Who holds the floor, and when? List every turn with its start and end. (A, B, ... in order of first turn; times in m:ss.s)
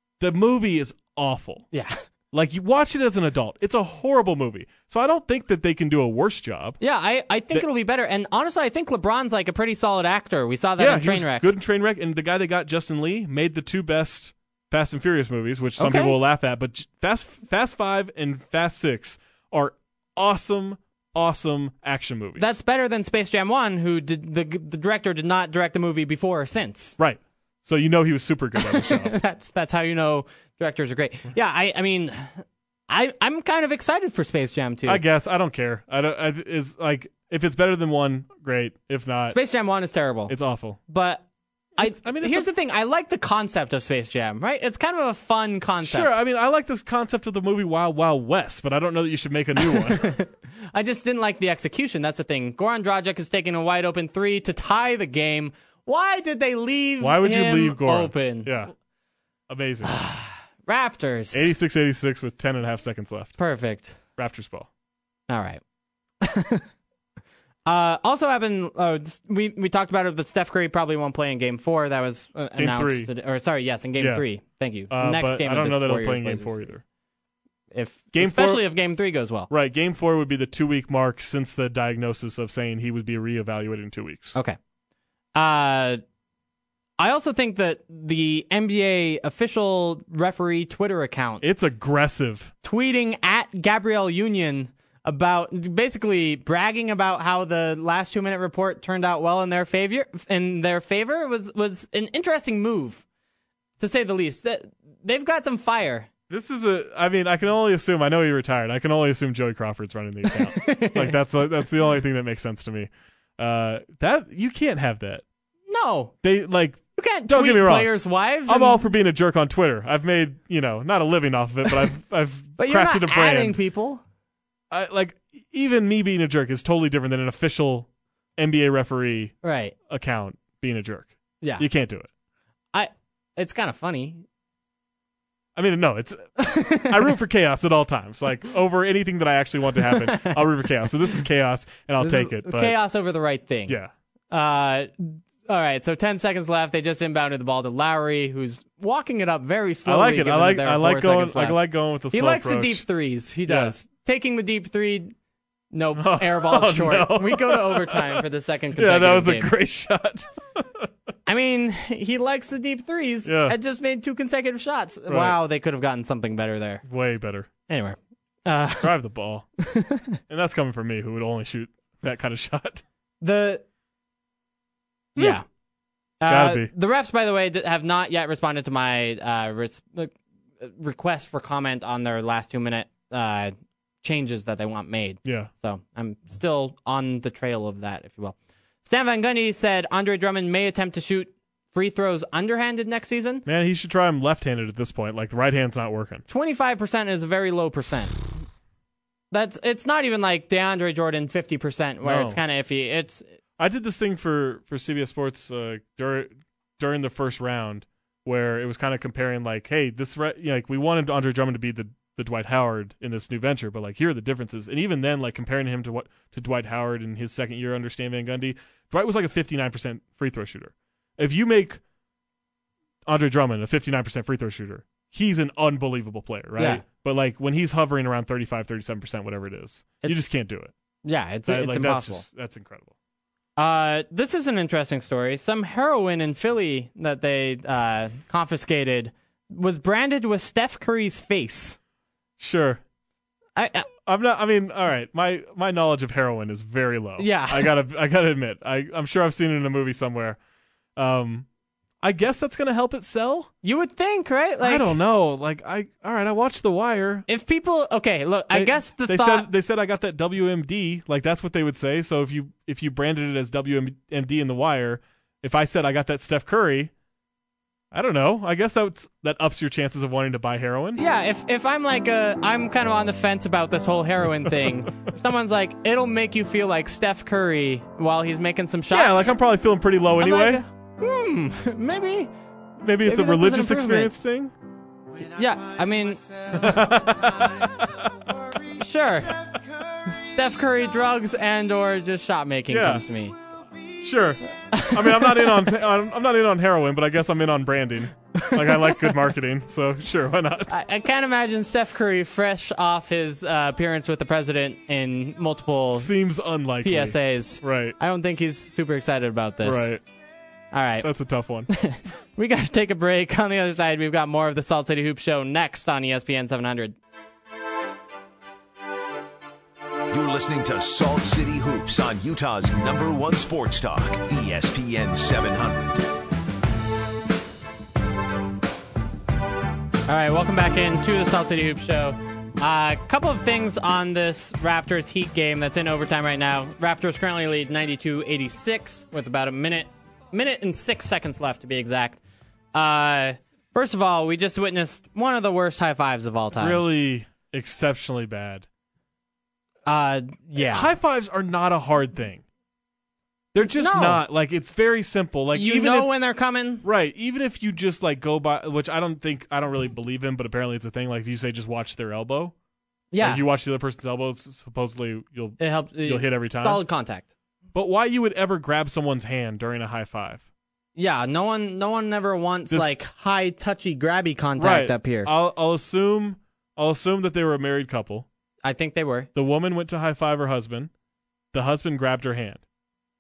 0:00.2-0:01.6 A
0:01.7-0:02.0 B
0:02.3-0:06.8 A
0:06.8-0:11.5 B
0:10.8-0:22.6 A
0:15.8-0:16.2 B
0:22.4-0:27.0 B
0:27.0-0:29.2 A
0:28.6-0:35.0 B
0:34.8-0:39.4 A
0:39.3-0:40.3 B
0:40.3-0:40.8 A
0:40.9-0:41.2 B
0:41.8-0:46.2 B
0:41.8-0:42.5 A
0:45.8-0:50.2 A
0:49.6-0:58.5 B
0:57.0-0:58.7 A
0:59.5-1:00.0 A
0:59.8-1:01.5 B
1:01.3-1:03.4 A
1:03.4-1:04.0 B
1:04.2-1:04.7 A
1:05.3-1:05.6 B
1:06.2-1:06.6 B
1:07.6-1:16.7 B
1:12.6-1:13.1 A
1:14.0-1:14.2 A
1:14.9-1:16.8 A
1:17.7-1:19.5 B
1:18.1-1:18.6 A
1:19.5-1:24.4 A
1:25.3-1:26.0 B
1:27.0-1:31.4 B
1:31.4-1:32.5 A
1:32.6-1:43.0 B
1:43.8-1:46.1 B
1:46.3-1:55.2 A
1:50.3-1:51.2 B
1:55.7-1:56.1 B
1:56.2-1:57.9 A
1:57.0-1:58.8 B
1:58.4-2:03.6 A
2:02.6-2:04.0 B
2:04.7-2:09.3 A
2:09.4-2:09.7 B
2:09.9-2:12.1 A
2:12.7-2:14.2 B
2:15.6-2:22.8 A
2:16.4-2:17.1 B
2:19.8-2:20.4 B
2:22.0-2:23.8 B
2:24.3-2:35.1 B
2:29.8-2:32.8 A
2:33.5-2:33.7 A
2:35.7-2:39.5 B
2:35.9-2:38.2 A
2:38.8-2:40.9 A
2:41.2-2:46.8 B
2:43.2-2:43.6 A
2:45.1-2:45.4 A
2:46.8-2:47.5 A
2:47.7-2:48.9 B
2:48.8-2:49.4 A
2:49.6-2:50.2 B
2:50.3-2:52.8 A
2:53.2-2:53.6 B
2:55.2-2:55.4 A
2:55.2-2:55.4 B
2:56.2-3:13.4 B
2:56.3-2:56.7 A
3:05.2-3:05.5 A
3:13.4-3:16.2 A
3:16.3-3:18.2 B
3:19.3-3:23.2 B
3:22.0-3:22.4 A
3:23.6-3:41.8 A
3:43.0-3:50.7 A
3:46.6-3:46.8 B
3:50.0-3:50.4 B
3:51.0-3:52.2 B
3:51.4-3:52.9 A
3:53.6-4:01.8 B
4:02.4-4:02.8 A
4:03.6-4:03.9 B
4:04.0-4:10.4 A
4:07.2-4:07.7 B
4:11.0-4:11.5 A
4:12.0-4:13.5 A
4:13.6-4:14.9 B
4:14.6-4:17.2 A
4:17.3-4:19.5 B
4:18.5-4:26.9 A
4:27.9-4:31.0 A
4:31.0-4:39.3 B
4:34.4-4:34.9 A
4:38.9-4:40.6 A
4:40.2-4:42.3 B
4:42.8-4:44.5 A
4:43.0-4:44.2 B
4:45.2-4:46.7 B
4:46.5-4:48.1 A
4:48.7-4:49.4 B
4:50.0-4:53.3 B
4:52.7-4:53.0 A
4:54.0-5:00.7 A
4:54.7-4:55.6 B
4:58.4-4:59.1 B
5:00.7-5:06.1 B
5:05.9-5:08.0 A
5:06.8-5:09.9 B
5:09.6-5:10.0 A
5:10.7-5:11.1 B
5:11.0-5:11.7 A
5:11.7-5:17.0 B
5:20.1-5:26.0 C
5:30.1-5:42.2 B
5:42.7-5:46.8 B
5:46.6-5:48.6 A
5:49.8-5:50.9 B
5:50.6-5:52.4 A
5:53.5-5:56.1 A
5:53.6-5:54.2 B
5:55.5-5:56.8 B
5:56.8-6:02.5 A
6:03.1-6:03.4 B
6:03.2-6:06.8 A
6:05.6-6:07.2 B
6:07.7-6:10.4 A
6:11.0-6:15.3 B
6:12.7-6:13.0 A
6:14.6-6:18.2 A
6:18.6-6:19.3 B
6:19.3-6:20.9 A
6:21.5-6:22.6 A